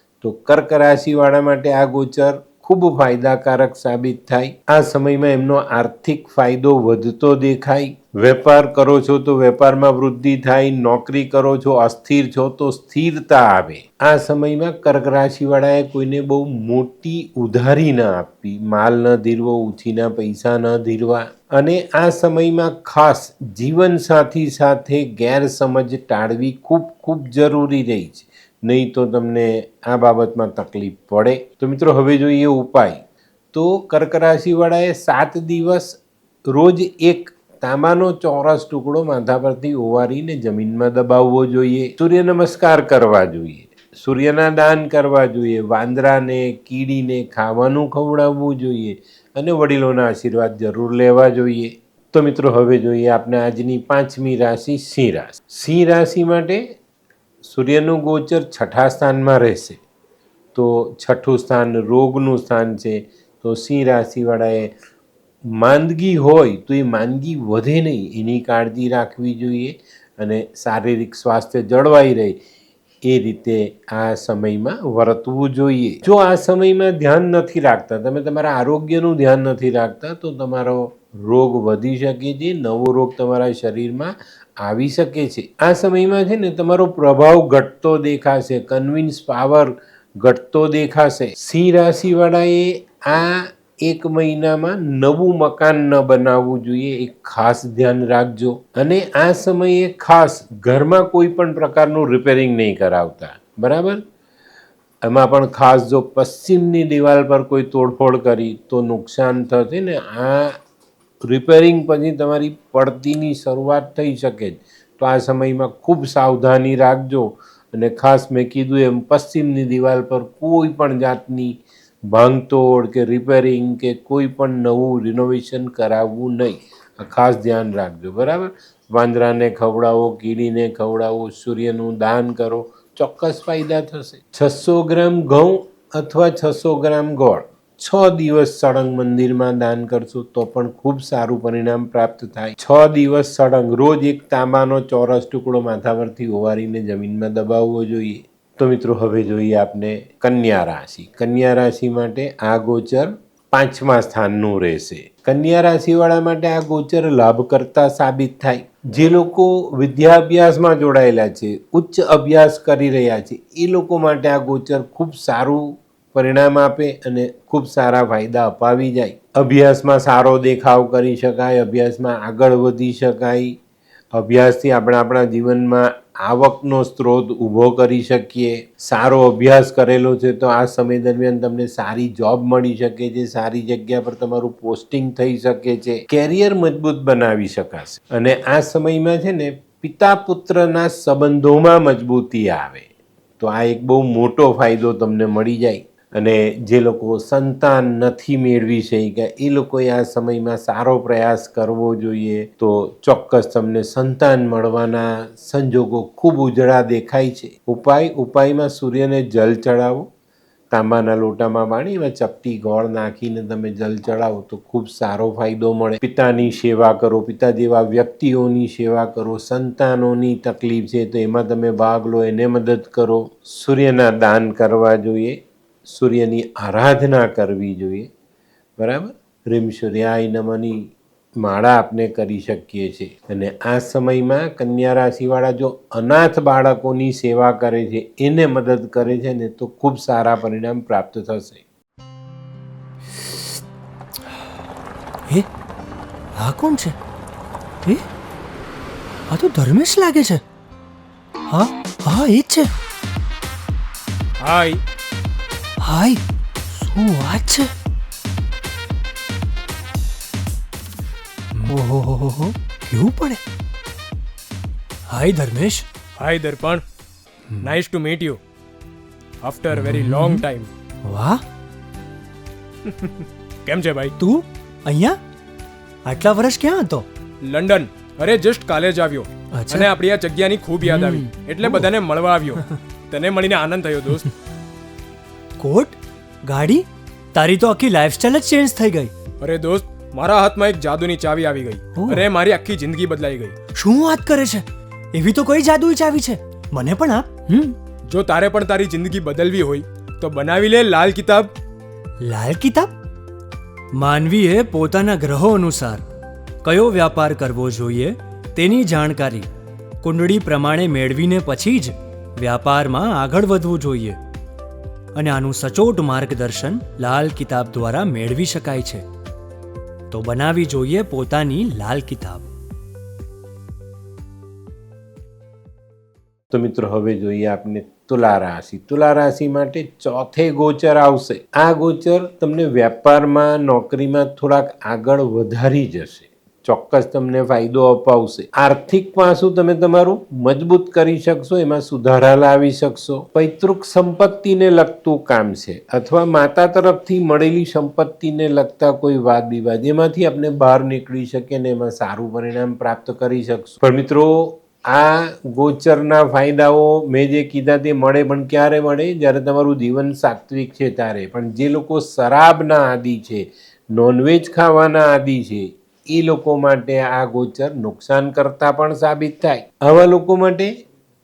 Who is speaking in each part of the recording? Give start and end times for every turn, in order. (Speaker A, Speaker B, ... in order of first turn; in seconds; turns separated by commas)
Speaker A: 0.2-36.0, Speaker A: 36.5-56.6, Speaker A: 57.4-59.8, Speaker A: 60.5-64.7, Speaker A: 65.6-72.3, Speaker A: 73.0-104.0, Speaker A: 105.0-110.6, Speaker A: 111.2-173.6, Speaker A: 174.1-192.9, Speaker A: 193.4-210.1, Speaker A: 210.7-228.1, Speaker A: 228.8-241.6, Speaker B: 246.3-247.0, Speaker B: 249.3-250.4, Speaker B: 251.5-252.7, Speaker C: 254.4-254.8, Speaker B: 255.8-257.7, Speaker B: 261.6-263.4, Speaker B: 265.1-265.9, Speaker C: 266.2-266.8, Speaker C: 267.6-268.4, Speaker C: 269.4-270.7, Speaker B: 269.7-270.4, Speaker B: 271.1-271.4, Speaker C: 272.8-274.1, Speaker B: 274.2-275.2, Speaker B: 276.1-277.1, Speaker C: 277.4-284.3, Speaker B: 279.5-279.9, Speaker B: 280.8-281.8, Speaker B: 285.6-289.1, Speaker C: 289.4-293.6, Speaker B: 292.0-292.2, Speaker B: 293.7-297.8, Speaker C: 298.1-301.5, Speaker B: 302.2-302.9, Speaker B: 303.9-306.0, Speaker B: 306.6-309.5, Speaker B: 310.0-314.2, Speaker B: 315.1-319.1, Speaker B: 320.1-322.5, Speaker A: 326.5-370.7